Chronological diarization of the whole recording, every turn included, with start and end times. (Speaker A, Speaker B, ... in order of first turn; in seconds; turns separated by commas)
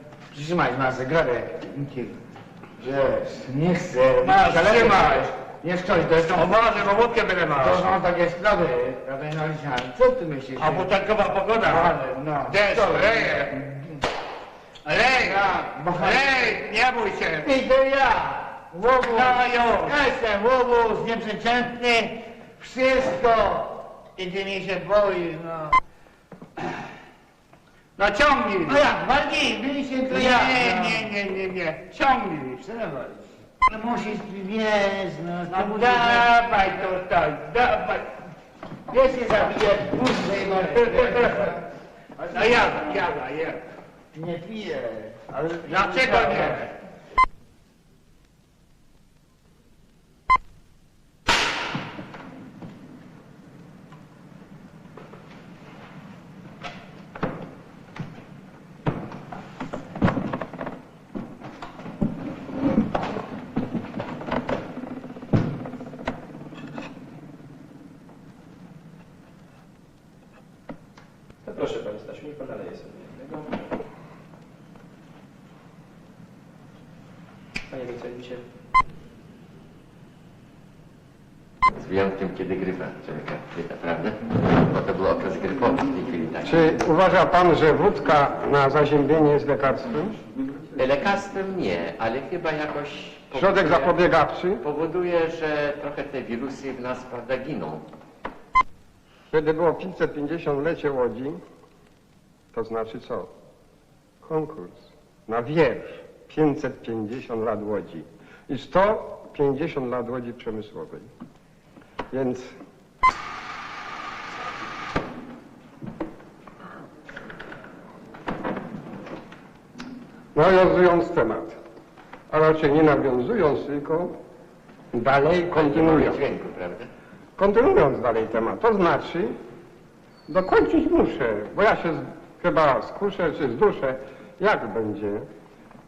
Speaker A: 0.3-2.2, Speaker A: 2.8-6.5, Speaker B: 4.2-5.3, Speaker B: 6.3-8.0, Speaker A: 7.6-10.9, Speaker B: 10.6-11.9, Speaker A: 11.7-13.8, Speaker B: 12.5-13.6, Speaker B: 14.8-17.6, Speaker A: 15.2-16.7, Speaker A: 17.4-25.8, Speaker B: 18.8-20.0, Speaker B: 28.0-28.9, Speaker A: 28.6-31.1, Speaker B: 30.1-32.6, Speaker A: 32.6-36.3, Speaker B: 35.5-38.1, Speaker A: 38.9-41.6, Speaker B: 40.8-41.5, Speaker A: 42.2-42.9, Speaker B: 42.3-43.6, Speaker A: 44.1-46.7, Speaker B: 45.6-46.7, Speaker C: 71.4-73.6, Speaker C: 77.7-78.4, Speaker D: 81.7-86.7, Speaker E: 86.4-90.2, Speaker D: 90.8-94.0, Speaker E: 93.3-94.6, Speaker D: 94.6-97.9, Speaker E: 99.3-101.4, Speaker E: 102.5-103.3, Speaker E: 104.2-111.1, Speaker E: 112.1-112.5, Speaker E: 120.3-121.6, Speaker E: 122.3-124.2, Speaker E: 124.9-126.2, Speaker D: 125.5-126.9, Speaker E: 127.4-129.4, Speaker E: 130.3-135.3